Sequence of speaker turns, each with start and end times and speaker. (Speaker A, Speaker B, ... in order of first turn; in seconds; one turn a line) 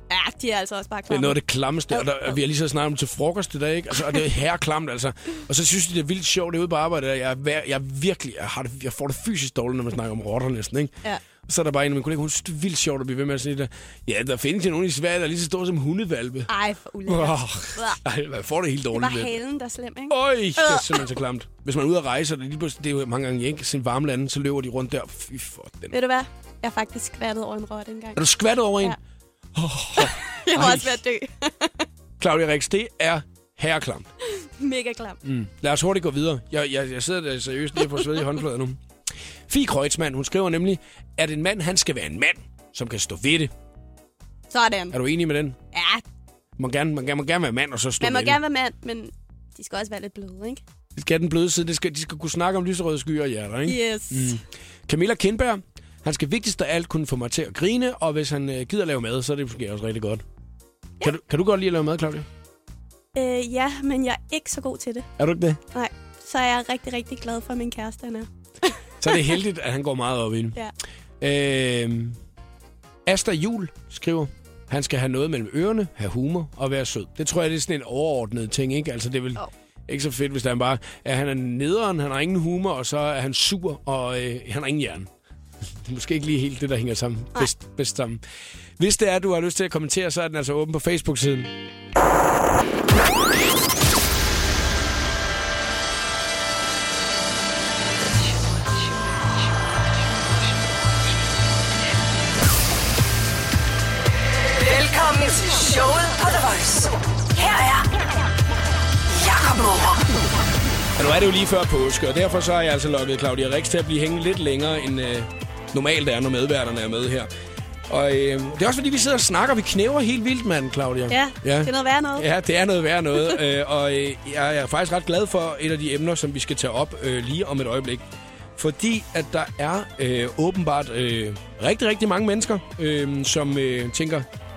Speaker A: 0.1-1.4
Speaker B: 1.1-16.5
Speaker A: 1.9-2.4
Speaker A: 16.5-18.0
Speaker B: 17.1-19.4
Speaker A: 18.9-21.1
Speaker B: 20.1-26.0
Speaker A: 25.9-28.2
Speaker B: 28.1-29.0
Speaker B: 29.5-31.0
Speaker A: 30.0-31.7
Speaker B: 32.2-34.1
Speaker A: 34.4-35.2
Speaker B: 35.2-38.8
Speaker A: 37.9-38.1
Speaker B: 39.5-43.5
Speaker A: 44.5-45.0
Speaker B: 44.9-45.6
Speaker A: 45.7-46.0
Speaker B: 46.6-48.4
Speaker A: 48.0-50.6
Speaker B: 50.9-60.2
Speaker A: 53.6-54.4
Speaker B: 61.0-62.3
Speaker A: 63.1-65.1
Speaker B: 65.2-65.6
Speaker A: 65.7-69.2
Speaker B: 69.0-70.6
Speaker B: 71.2-72.2
Speaker B: 73.0-85.1
Speaker B: 85.8-88.2
Speaker B: 88.8-91.5
Speaker C: 98.2-99.5
Speaker C: 100.2-100.8
Speaker C: 104.4-107.9
Speaker C: 109.1-110.0
Speaker B: 111.0-117.3
Speaker B: 117.9-128.0
Speaker A: 121.1-122.3
Speaker B: 128.6-134.2